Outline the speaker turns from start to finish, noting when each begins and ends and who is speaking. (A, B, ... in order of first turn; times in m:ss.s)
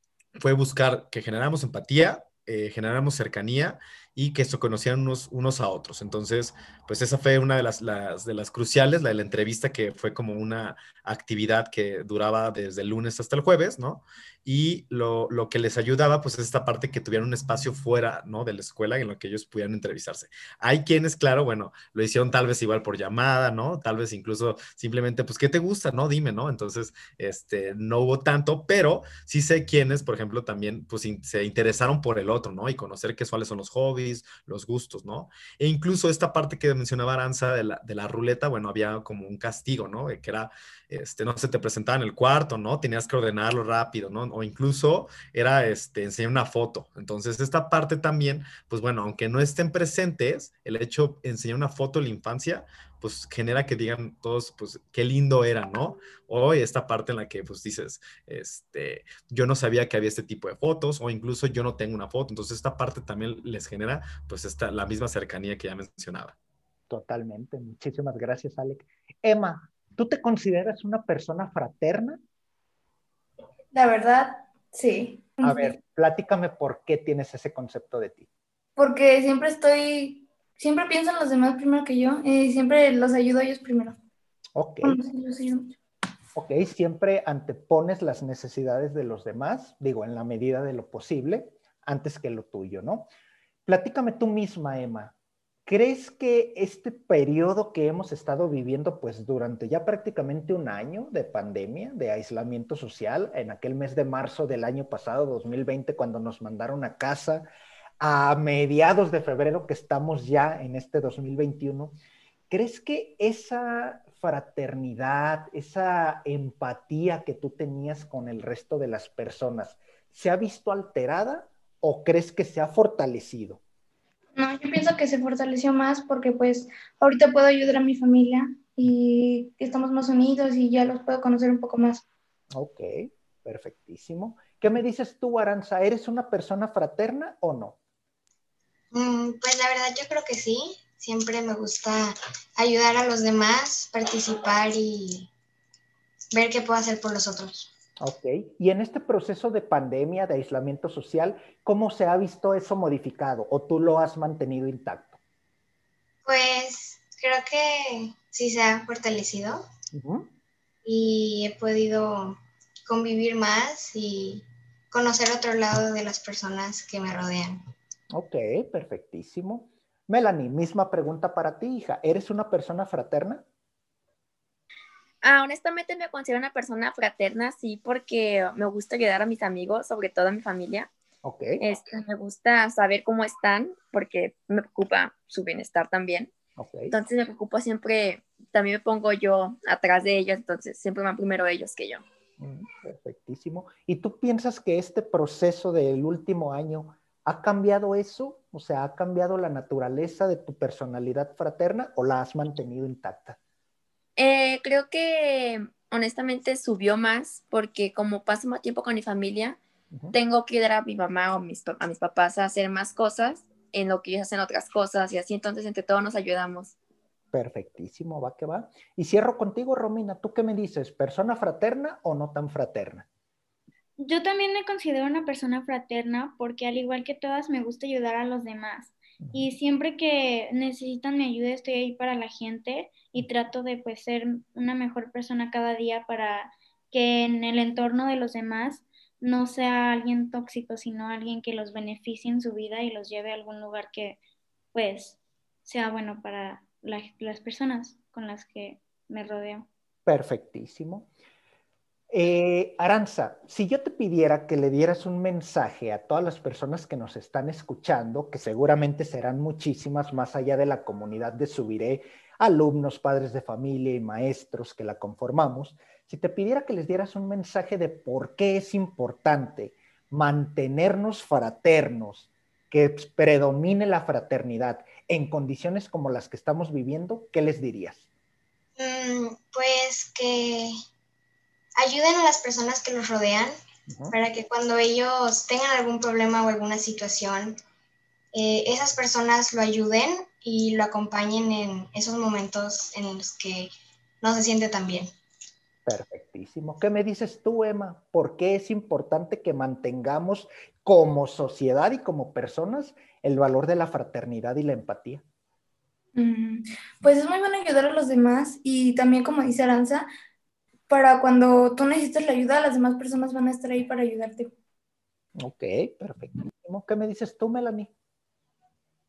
0:00.4-1:06.4 A
1:06.9-1:12.2 B
1:13.7-1:15.8 C
1:15.4-1:18.3 B
1:18.8-1:24.0 C
1:24.6-1:25.0 B
1:24.8-1:25.7 C
1:26.4-1:33.1 B
1:33.7-1:35.1 B
1:35.7-1:47.5 B
1:48.0-1:51.9 B
1:52.5-2:03.6 B
2:04.4-2:12.0 C
2:12.5-2:17.8 B
2:18.9-2:25.3 D
2:26.3-2:27.7 D
2:28.0-2:35.2 B
2:36.2-2:39.6 D
2:39.9-2:40.3 B
2:40.8-2:47.6 D
2:48.1-2:53.4 B
2:55.2-3:00.9 E
3:01.2-3:01.6 B
3:01.6-3:06.3 E
3:06.6-3:06.9 B
3:06.9-3:12.0 E
3:12.4-3:23.4 B
3:24.2-3:29.6 E
3:30.1-3:36.7 E
3:37.3-3:43.1 B
3:44.0-4:04.2 F
3:49.2-3:49.5 B
4:04.7-4:09.7 F
4:10.1-4:11.1 B
4:12.1-4:38.0 B
4:38.8-4:40.7 D
4:41.8-4:43.6 D
4:43.9-4:44.2 B
4:44.1-4:47.6 D
4:48.3-4:53.7 D
4:54.2-4:55.1 D
4:55.9-5:05.2 B
5:06.2-5:10.1 C
5:10.9-5:14.5 C
5:15.4-5:17.9 B